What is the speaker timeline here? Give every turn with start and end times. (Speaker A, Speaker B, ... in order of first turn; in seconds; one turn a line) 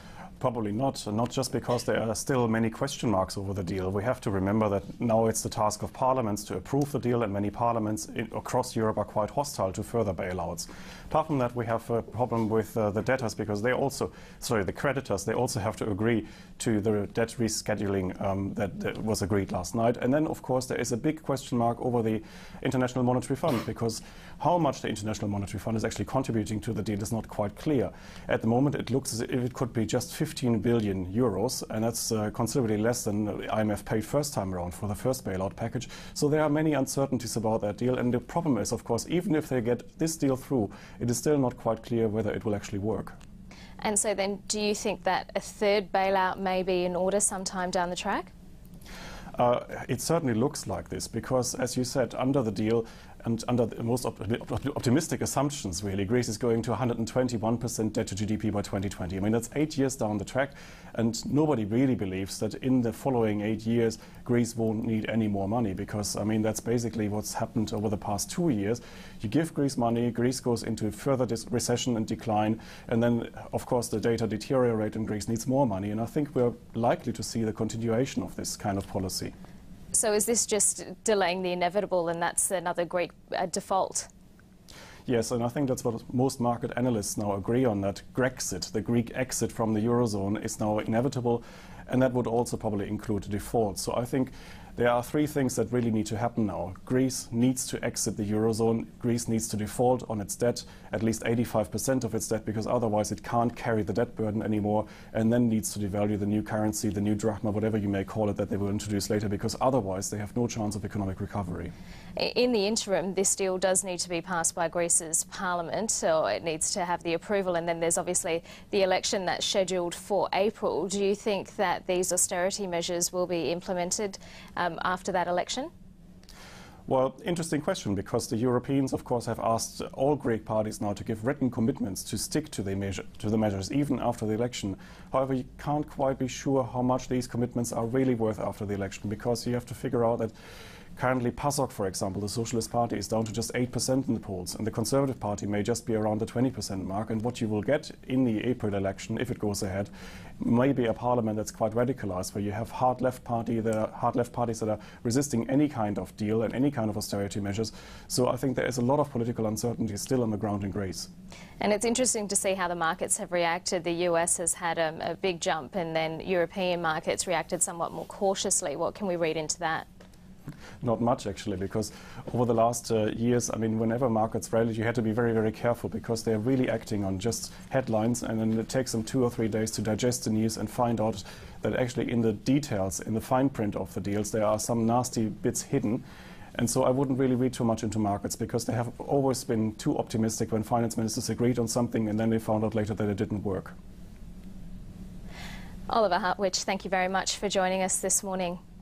Speaker A: 0.4-43.2
Speaker B: 43.8-48.3
Speaker A: 49.4-79.3
Speaker B: 79.9-84.1
Speaker A: 85.1-111.7
Speaker B: 112.2-125.7
Speaker A: 126.9-140.3
Speaker A: 141.0-161.1
Speaker B: 161.6-169.9
Speaker A: 170.8-186.0
Speaker A: 186.6-193.7
Speaker B: 195.9-198.6